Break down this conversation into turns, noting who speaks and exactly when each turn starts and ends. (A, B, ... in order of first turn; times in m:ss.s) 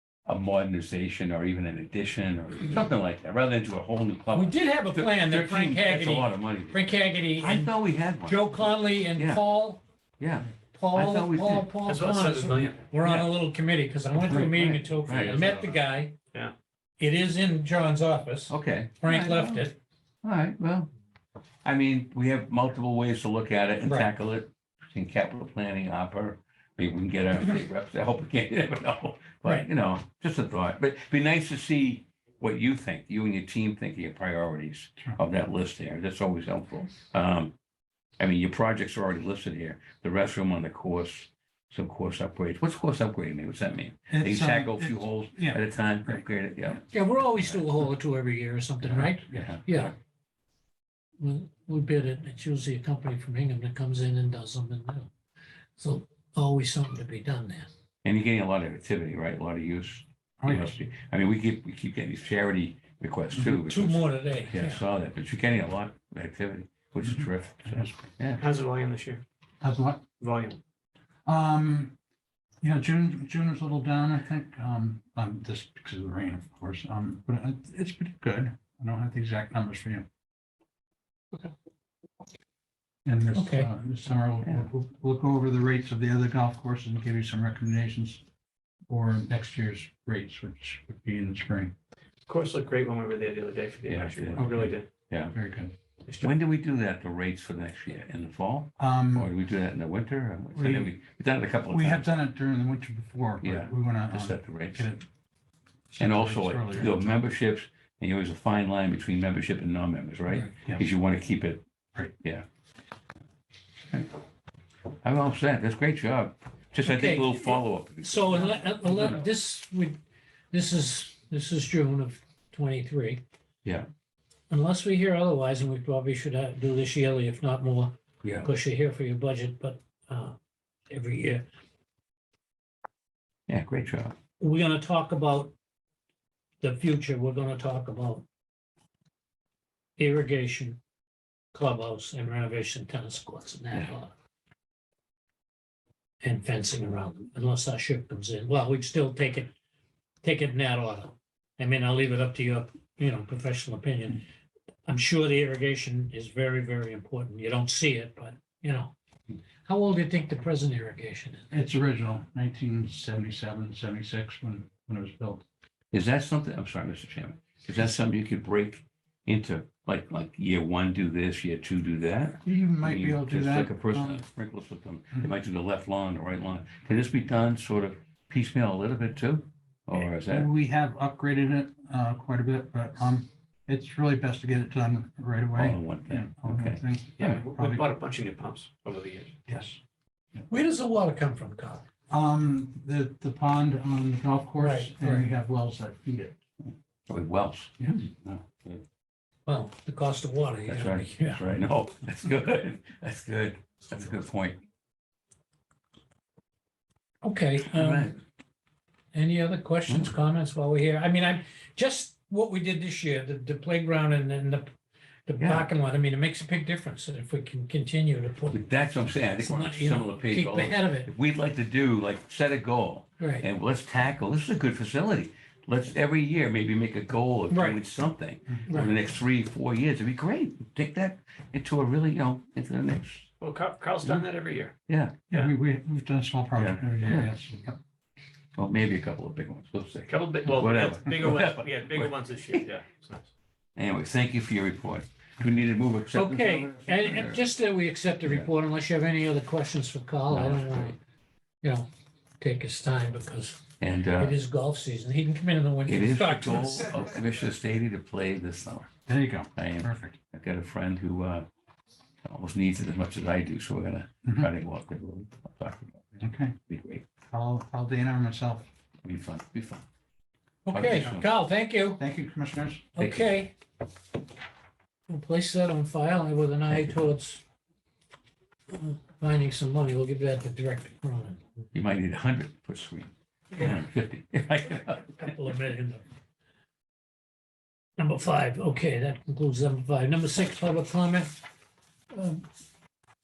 0:00.3-0:09.5 A
0:04.3-0:09.8 B
0:10.2-0:11.8 A
0:10.7-0:16.1 B
0:11.8-0:12.8 C
0:12.8-0:13.3 A
0:14.2-0:15.7 A
0:17.0-0:19.8 B
0:18.5-0:19.7 A
0:20.2-0:20.9 A
0:21.6-0:37.5 A
0:38.2-0:46.9 A
0:44.1-0:46.2 D
0:46.9-0:49.9 B
0:48.8-0:49.9 A
0:51.2-0:55.1 B
0:55.8-0:57.7 B
0:58.0-1:08.4 A
1:00.4-1:00.8 D
1:03.3-1:03.6 D
1:03.5-1:04.8 B
1:07.0-1:08.0 D
1:08.4-1:09.2 C
1:09.6-1:10.1 D
1:10.2-1:10.6 C
1:11.3-1:11.9 D
1:12.6-1:20.1 D
1:23.0-1:28.2 D
1:23.4-1:23.7 B
1:28.9-1:31.7 D
1:32.3-1:34.9 C
1:33.9-1:35.4 A
1:34.4-1:34.8 D
1:35.3-1:35.7 D
1:36.1-1:36.3 C
1:36.2-1:42.1 A
1:38.8-1:39.3 D
1:40.5-1:41.0 D
1:41.7-1:45.0 D
1:43.4-1:44.9 A
1:45.9-1:47.2 D
1:46.0-1:51.6 A
1:52.2-1:52.4 A
1:55.0-1:59.2 A
1:56.8-2:00.0 B
2:00.5-2:03.2 B
2:04.5-2:10.4 B
2:08.2-2:08.5 A
2:10.9-2:11.4 B
2:13.5-2:14.2 A
2:14.4-2:15.5 B
2:16.6-2:18.2 B
2:20.0-2:20.8 B
2:21.5-2:24.1 B
2:26.2-2:29.5 B
2:30.2-2:34.2 B
2:34.9-2:38.9 B
2:39.6-2:41.5 B
2:41.5-2:45.4 D
2:45.9-3:00.5 A
2:52.4-2:54.2 D
3:00.0-3:07.8 D
3:05.6-3:07.4 A
3:07.2-3:09.4 C
3:09.5-3:09.8 D
3:10.5-3:11.8 B
3:12.1-3:16.4 D
3:14.6-3:15.3 B
3:17.1-3:18.8 A
3:17.8-3:18.2 D
3:19.5-3:21.5 B
3:20.7-3:24.6 A
3:27.2-3:28.2 B
3:27.7-3:28.2 A
3:29.1-3:34.7 B
3:29.9-3:30.1 A
3:35.3-3:38.6 B
3:35.4-3:35.7 A
3:38.5-3:53.3 A
3:39.2-3:41.1 B
3:43.2-3:43.5 B
3:47.5-3:47.8 B
3:48.7-3:49.0 B
3:53.4-3:54.7 C
3:54.9-3:55.3 A
3:55.3-3:57.8 D
3:56.6-3:57.3 A
3:58.6-4:02.7 A
4:00.1-4:03.3 C
4:03.8-4:07.4 A
4:06.2-4:11.0 B
4:10.3-4:11.0 A
4:11.6-4:11.9 B
4:12.4-4:17.0 B
4:13.8-4:14.4 A
4:15.9-4:18.9 A
4:19.1-4:20.2 D
4:19.6-4:21.5 A
4:22.2-4:27.0 A
4:24.2-4:24.5 D
4:26.2-4:26.6 D
4:27.3-4:28.7 D
4:29.0-4:29.8 A
4:30.7-4:32.0 B
4:30.7-4:31.3 A
4:32.0-4:32.9 D
4:33.0-4:33.5 B
4:33.0-4:33.3 A
4:35.1-4:37.4 B
4:36.7-4:37.1 A
4:38.7-4:41.4 B
4:41.7-4:45.3 A
4:43.5-4:43.8 B
4:44.8-4:46.0 B
4:48.0-4:51.3 B
4:52.1-4:52.4 B